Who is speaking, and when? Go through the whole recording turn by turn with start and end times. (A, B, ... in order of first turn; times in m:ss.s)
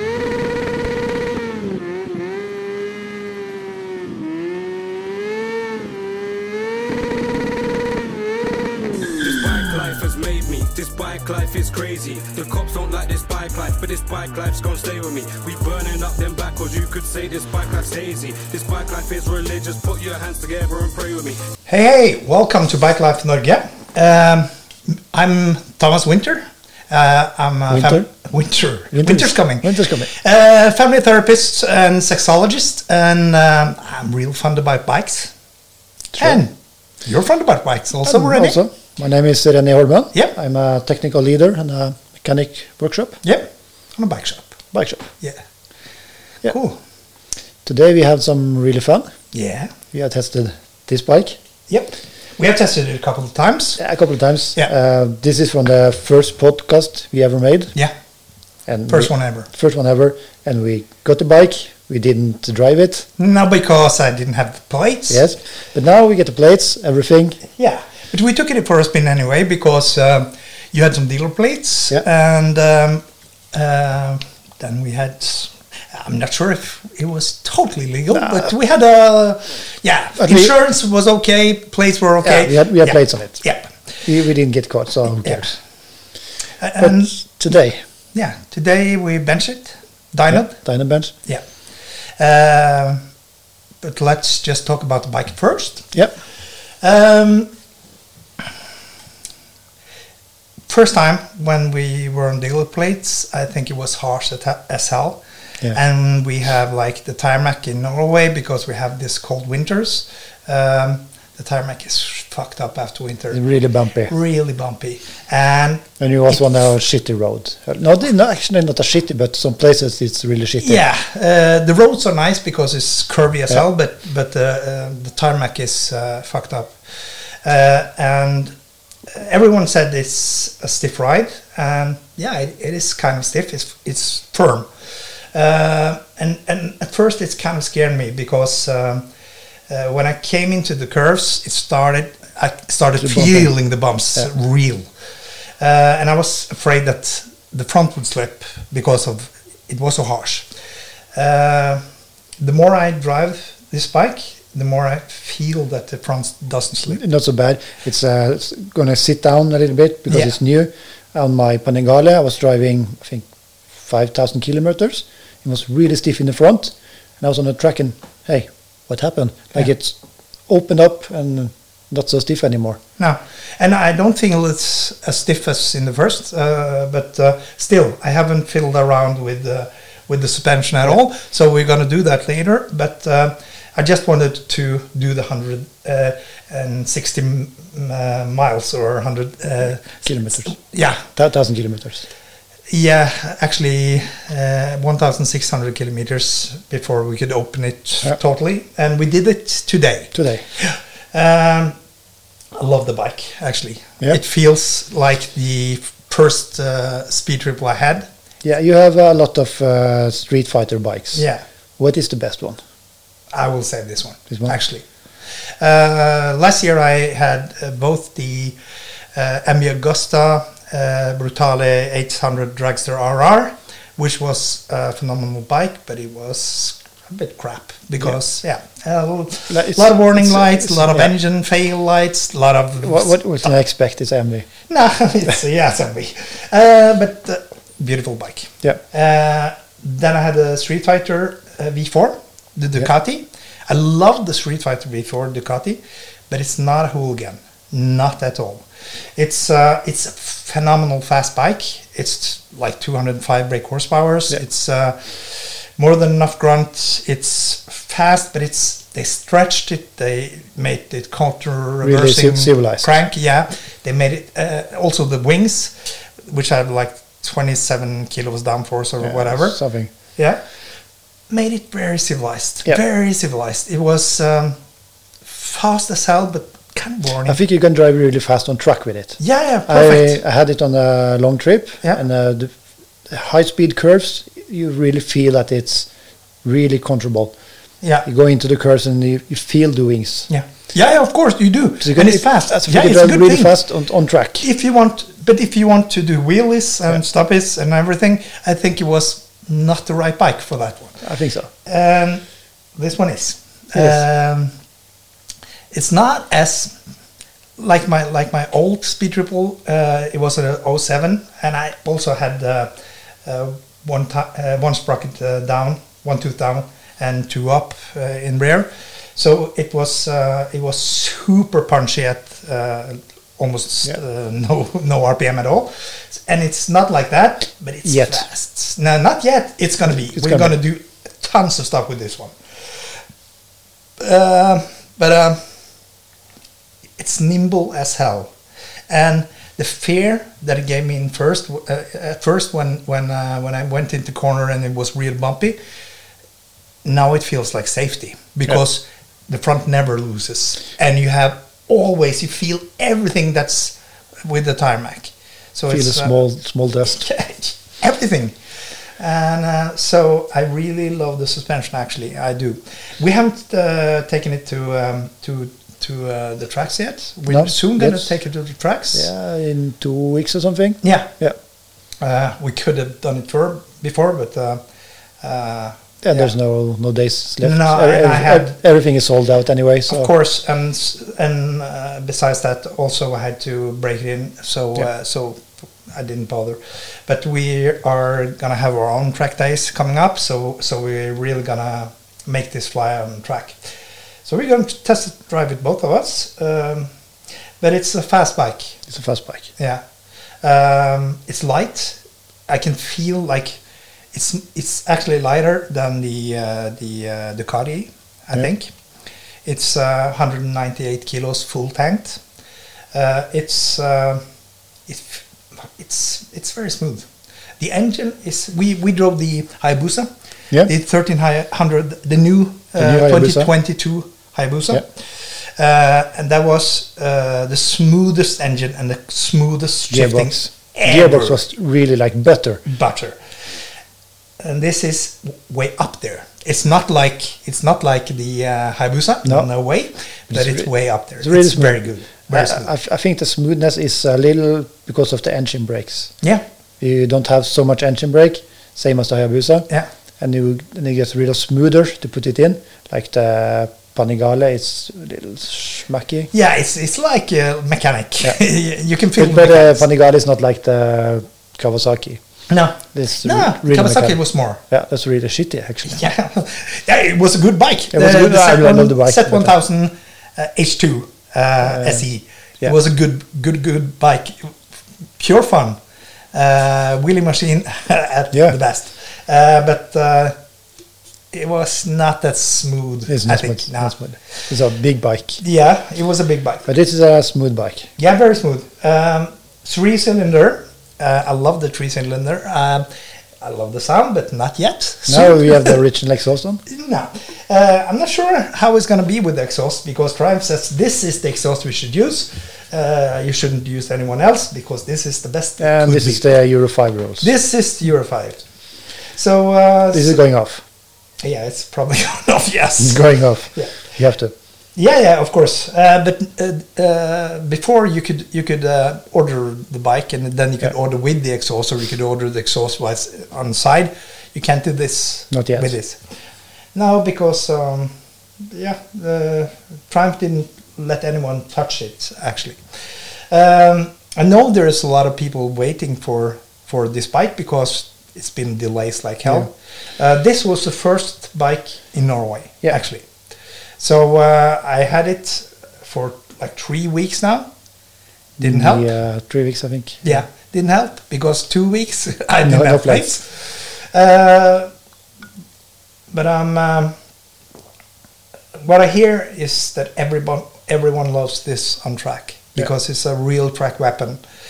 0:09.2-0:21.4 A
0:21.7-0:35.3 B
0:27.7-0:28.1 C
0:28.9-0:30.1 C
0:36.2-0:36.4 C
0:36.2-0:36.5 B
0:37.0-0:38.6 B
0:38.0-0:43.2 C
0:43.2-0:44.6 B
0:44.7-0:45.1 C
0:46.4-0:46.8 B
0:47.6-0:49.1 C
0:49.3-0:49.7 B
0:49.9-0:51.4 C
0:51.7-0:53.8 B
0:53.8-0:57.8 C
0:58.7-1:03.1 C
0:58.9-0:59.5 B
1:03.2-1:05.2 B
1:05.1-1:07.4 C
1:07.5-1:23.7 B
1:18.1-1:18.5 C
1:20.2-1:20.6 C
1:22.2-1:23.4 C
1:24.0-1:25.6 C
1:25.2-1:25.5 B
1:26.6-1:27.1 B
1:26.8-1:27.8 C
1:28.1-1:30.5 B
1:30.3-1:31.1 C
1:32.2-1:33.0 B
1:33.8-1:36.0 B
1:36.8-1:37.5 B
1:40.7-1:53.4 B
1:53.3-1:54.1 C
1:54.1-1:56.4 B
1:56.0-2:00.8 C
2:00.6-2:06.8 B
2:07.4-2:08.5 B
2:09.1-2:14.7 B
2:15.3-2:19.1 B
2:19.7-2:24.9 B
2:23.0-2:23.5 C
2:25.6-2:30.5 B
2:31.1-2:31.8 B
2:32.4-2:37.0 B
2:36.9-2:43.2 C
2:40.1-2:40.4 B
2:43.8-2:50.0 C
2:50.5-2:52.8 C
2:53.0-3:11.1 B
3:10.0-3:10.6 C
3:11.1-3:12.1 C
3:12.7-3:21.8 B
3:20.1-3:20.4 C
3:22.6-3:28.1 B
3:28.4-3:31.3 C
3:31.2-3:31.4 B
3:31.8-3:32.6 C
3:33.3-3:34.8 B
3:34.3-3:34.6 C
3:35.6-3:38.6 B
3:39.1-3:53.5 B
3:49.5-3:51.1 C
3:52.8-3:54.5 C
3:54.7-4:29.6 B
4:21.8-4:23.0 C
4:29.0-4:29.9 C
4:30.2-4:30.4 B
4:31.3-4:34.6 B
4:35.2-4:37.4 B
4:37.3-4:42.6 C
4:39.2-4:40.2 B
4:43.1-4:45.9 C
4:46.4-4:47.4 C
4:47.8-4:48.1 B
4:48.0-4:50.3 C
4:50.3-4:53.6 B
4:51.8-4:54.5 C
4:54.4-5:01.0 B
5:01.0-5:01.5 C
5:01.7-5:02.2 B
5:02.8-5:04.5 B
5:03.8-5:04.0 C
5:05.7-5:06.8 B
5:07.6-5:12.7 B
5:13.2-5:32.9 B
5:27.8-5:28.2 C
5:30.1-5:30.5 C
5:34.0-5:35.4 B
5:37.0-5:38.3 B
5:38.9-5:45.6 B
5:46.8-5:56.2 B
5:55.7-5:57.0 C
5:56.8-5:58.3 B
5:59.0-6:09.1 B
6:07.3-6:08.1 C
6:08.9-6:11.4 C
6:10.8-6:11.1 B
6:12.0-6:14.6 B
6:15.2-6:16.3 B
6:16.0-6:20.1 C
6:17.4-6:18.6 B
6:19.9-6:33.6 B
6:34.2-6:36.9 B
6:37.6-6:38.8 B
6:38.9-6:39.5 C
6:39.6-6:39.8 B
6:40.4-6:43.6 B
6:44.1-6:48.7 B
6:49.4-6:52.2 B
6:52.9-6:54.2 B
6:54.9-6:57.1 B
6:57.6-7:00.1 B
7:00.6-7:11.4 B
7:02.8-7:03.5 C
7:09.9-7:12.6 C
7:12.7-7:13.2 B
7:14.4-7:22.7 B
7:19.2-7:19.5 C
7:20.3-7:26.1 C
7:26.8-7:36.3 C
7:36.3-7:39.8 B
7:39.2-7:42.2 C
7:42.5-7:44.6 B
7:42.9-7:46.0 C
7:45.9-7:54.5 B
7:47.9-7:49.5 C
7:51.6-7:52.0 C
7:55.2-7:55.8 B
7:56.3-8:00.4 B
8:01.3-8:04.0 B
8:03.1-8:05.4 C
8:05.4-8:06.7 B
8:06.7-8:07.9 C
8:08.0-8:12.9 B
8:13.4-8:15.8 B
8:15.1-8:16.6 C
8:16.7-8:26.3 B
8:25.6-8:27.3 C
8:27.2-8:28.4 B
8:29.1-8:30.2 B
8:29.9-8:30.6 C
8:31.2-8:33.8 B
8:32.8-8:34.3 C
8:34.8-8:46.0 B
8:45.3-8:45.8 C
8:46.7-9:03.1 B
9:03.8-9:07.5 B
9:08.4-9:08.9 B
9:08.4-9:10.2 C
9:10.0-9:14.7 B
9:12.4-9:13.1 C
9:16.1-9:17.0 B
9:18.6-9:24.2 B